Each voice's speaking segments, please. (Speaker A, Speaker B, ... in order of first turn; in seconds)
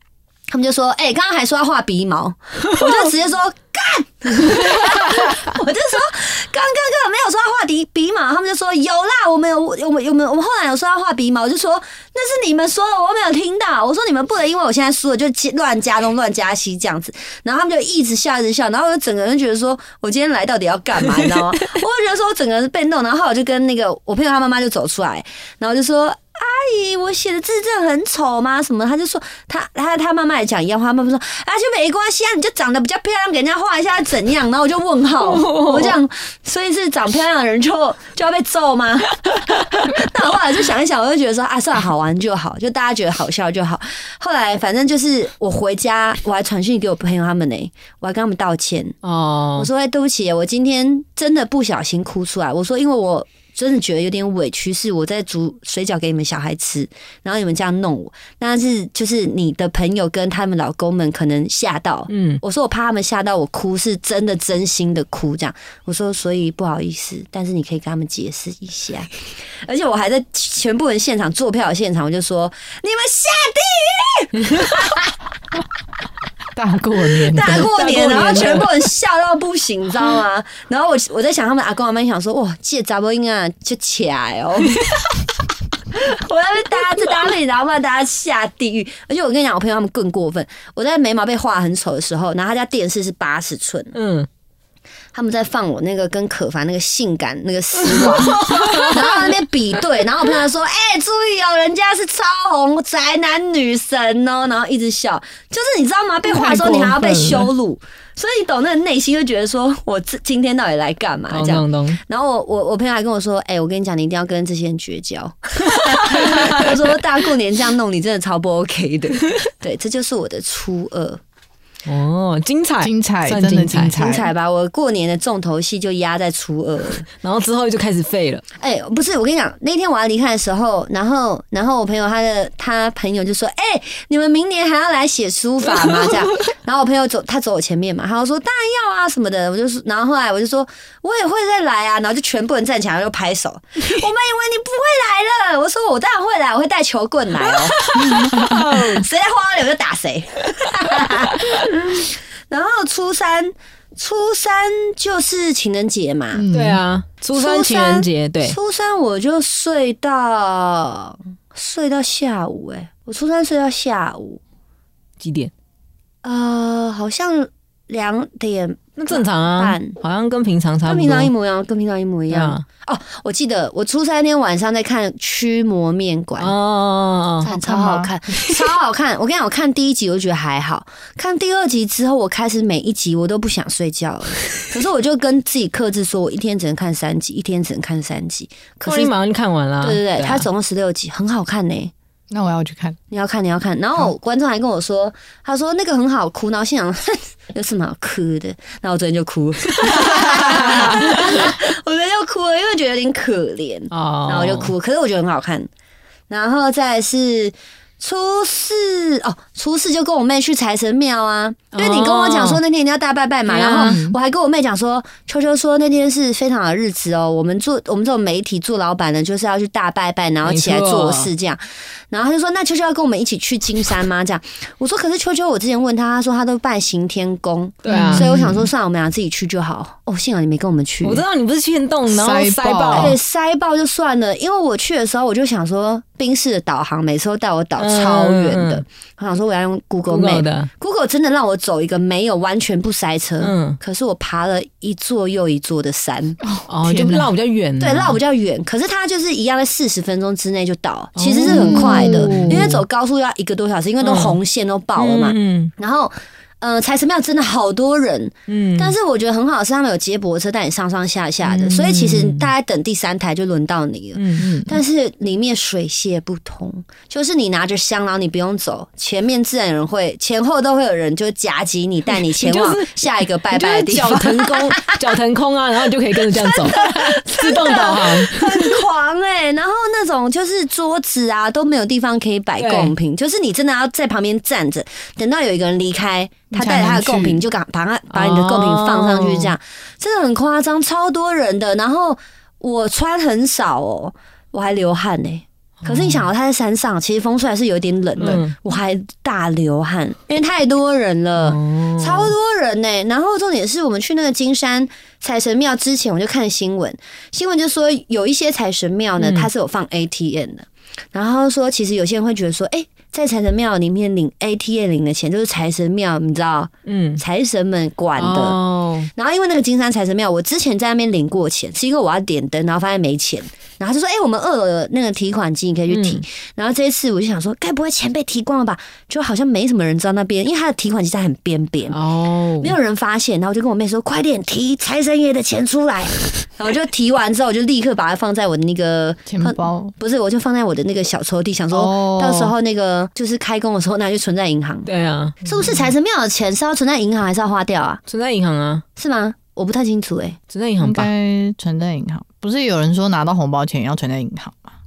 Speaker A: 0.5-49.0, 49.5-69.1, 69.6-75.0, 77.3-84.9, 85.9-94.0, 95.1-121.2, 124.0-127.0, 128.6-156.4, 157.3-164.4, 166.2-170.0, 170.8-176.5, 177.4-189.1, 189.8-191.9, 193.1-205.7, 206.3-231.2, 232.9-246.4, 247.8-275.0, 276.3-318.6, 319.1-332.0, 332.6-344.9, 345.4-348.0, 349.0-350.4
Speaker B: 35.2-36.0, 49.0-49.7, 62.1-62.4, 77.5-78.7, 93.9-94.3, 97.9-99.3, 111.3-112.0, 121.8-124.2, 127.1-128.4, 135.8-136.2, 147.8-149.0, 156.5-158.6, 165.2-165.5, 169.0-171.3, 172.3-172.6, 176.4-177.5, 188.8-190.5, 199.8-200.9, 203.9-204.7, 211.7-212.6, 213.5-214.0, 220.4-221.3, 227.8-228.3, 231.0-233.2, 237.8-238.8, 240.1-240.7, 243.4-243.8, 246.7-248.2, 251.2-252.8, 254.0-254.4, 254.9-255.7, 258.5-258.9, 261.4-262.5, 264.1-264.5, 272.2-278.8, 282.6-282.9, 288.1-289.5, 295.8-296.3, 298.2-298.5, 301.4-302.3, 309.2-309.5, 316.9-317.2, 318.2-319.1, 325.9-326.2, 331.9-332.7, 344.9-345.5, 348.1-348.8, 350.5-351.1
Speaker C: 76.5-77.7, 106.2-107.5, 122.8-124.2, 156.3-156.8, 177.5-178.1, 192.3-193.0, 213.8-214.2, 227.9-228.7, 232.1-233.2, 246.4-247.3, 251.5-252.8, 264.4-264.8, 286.5-287.4, 339.3-339.9, 341.7-342.5, 350.8-354.7